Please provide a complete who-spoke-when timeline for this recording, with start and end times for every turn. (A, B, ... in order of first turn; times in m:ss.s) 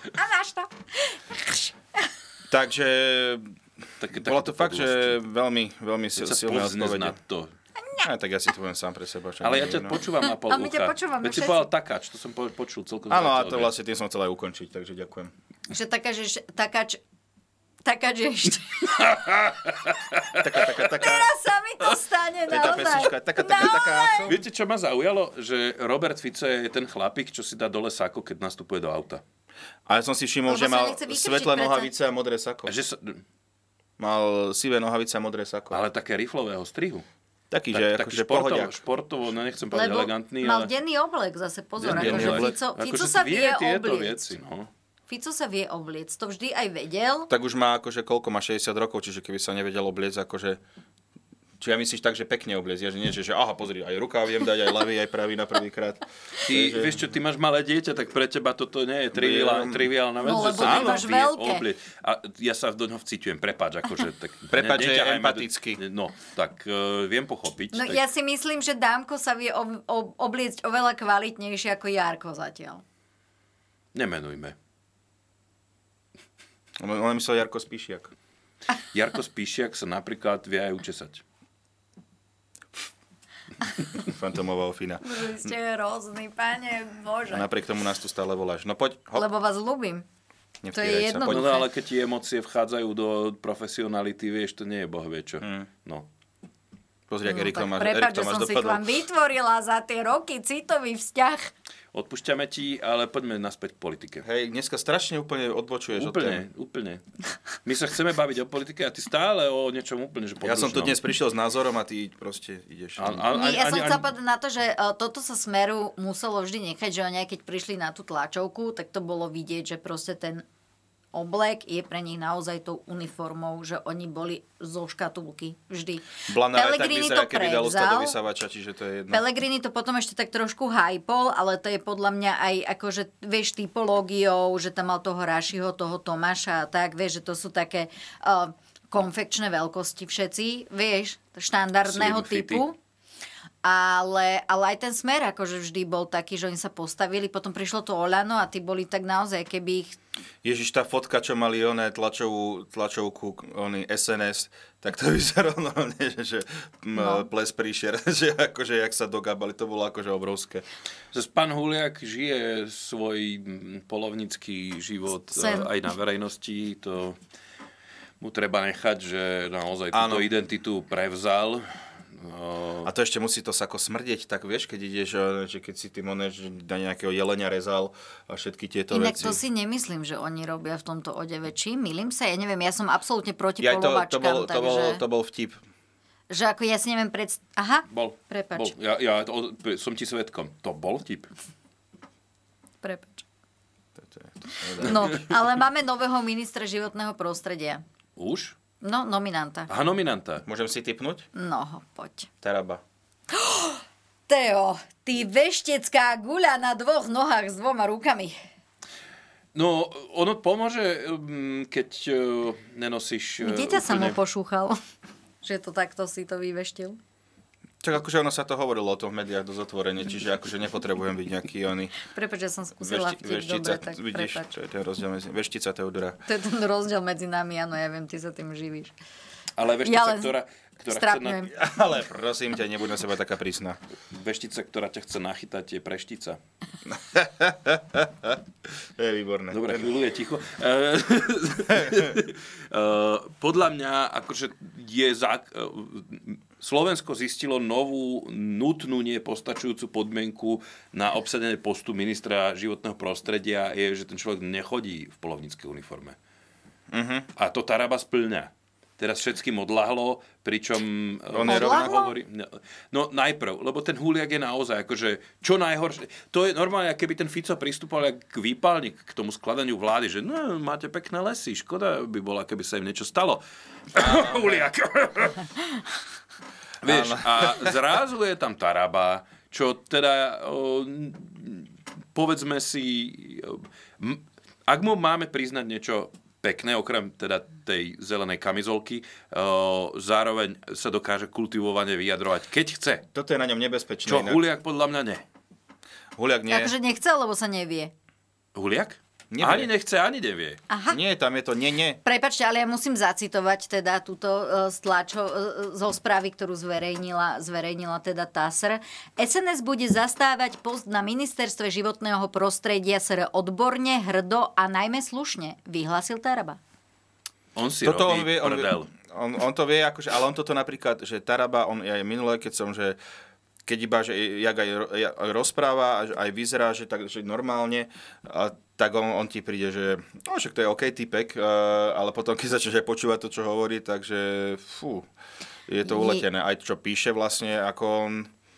0:00.1-0:01.7 A
0:02.5-0:03.5 B
0:04.0-0:05.2 C
0:04.1-0:07.2 B
0:06.2-0:07.5 C
0:08.0-0:10.0 B
0:09.4-0:13.7 C
0:10.2-0:11.7 A
0:13.1-0:15.3 B
0:15.7-0:17.0 A
0:17.8-0:19.2 A
0:19.0-0:20.4 C
0:20.4-0:21.3 B
0:21.0-0:24.3 A
0:22.5-0:24.4 B
0:24.2-0:29.2 C
0:29.8-0:32.7 B
0:30.5-0:31.9 A
0:32.6-0:33.2 C
0:34.0-0:35.8 B
0:35.7-0:37.0 C
0:37.5-0:38.8 B
0:37.7-0:40.7 C
0:39.7-0:44.3 A
0:41.8-0:44.7 C
0:41.9-0:42.5 B
0:45.1-0:47.3 A
0:47.3-0:50.6 B
0:51.6-0:57.0 B
0:56.4-1:08.0 C
0:59.1-0:59.9 B
1:00.2-1:01.6 A
1:00.6-1:01.0 B
1:04.5-1:05.8 B
1:07.7-1:12.8 A
1:13.9-1:14.5 C
1:16.8-1:18.1 B
1:18.9-1:21.2 C
1:24.0-1:25.0 B
1:25.0-1:27.5 A
1:27.3-1:29.2 B
1:29.1-1:30.0 A
1:30.6-1:31.4 B
1:30.7-1:31.7 A
1:31.3-1:36.0 C
1:35.4-1:35.7 B
1:37.1-1:38.8 B
1:37.2-1:41.5 A
1:41.9-1:44.2 C
1:44.2-1:46.4 B
1:46.0-1:47.0 C
1:47.6-1:51.0 C
1:50.4-1:53.2 B
1:53.0-1:54.0 C
1:53.3-2:00.4 A
2:01.1-2:08.2 A
2:06.3-2:09.2 B
2:09.1-2:22.8 A
2:21.8-2:22.6 C
2:23.6-2:30.0 A
2:30.4-2:40.6 B
2:37.0-2:37.3 A
2:41.1-2:47.2 C
2:45.3-2:45.7 A
2:48.2-2:52.9 C
2:49.9-2:50.3 B
2:52.8-2:59.4 B
2:58.9-3:05.0 A
3:03.6-3:05.6 B
3:06.3-3:08.7 A
3:07.9-3:11.3 C
3:12.8-3:13.2 A
3:14.0-3:15.3 B
3:14.8-3:17.8 A
3:18.2-3:18.5 C
3:18.8-3:19.7 A
3:19.7-3:20.4 C
3:20.4-3:21.2 B
3:21.3-3:22.3 A
3:22.4-3:22.8 B
3:23.3-3:28.4 A
3:29.5-3:34.2 C
3:33.4-3:34.8 A
3:35.4-3:37.0 A
3:37.8-3:41.9 B
3:42.0-3:44.5 A
3:42.8-3:46.2 B
3:46.3-3:48.9 A
3:49.6-3:51.5 C
3:49.8-3:50.3 A
3:50.9-3:51.5 A
3:51.5-3:53.8 B
3:54.1-3:56.4 C
3:56.8-3:58.4 B
3:59.0-3:59.9 B
3:59.5-4:16.2 C
4:16.9-4:17.3 B
4:17.4-4:35.4 C
4:21.3-4:22.0 B
4:21.4-4:22.1 A
4:33.9-4:34.6 B
4:36.8-4:37.7 B
4:36.8-4:53.0 C
4:53.1-4:54.4 B
4:54.0-4:55.2 C
4:56.2-4:56.7 B
4:56.5-4:57.9 A
4:58.5-5:00.6 C
4:59.3-4:59.7 B
5:00.7-5:01.0 A
5:00.9-5:02.0 B
5:02.0-5:16.6 A
5:17.6-5:18.9 C
5:17.8-5:23.0 B
5:23.6-5:35.1 B
5:35.7-5:38.3 B
5:35.9-5:36.2 A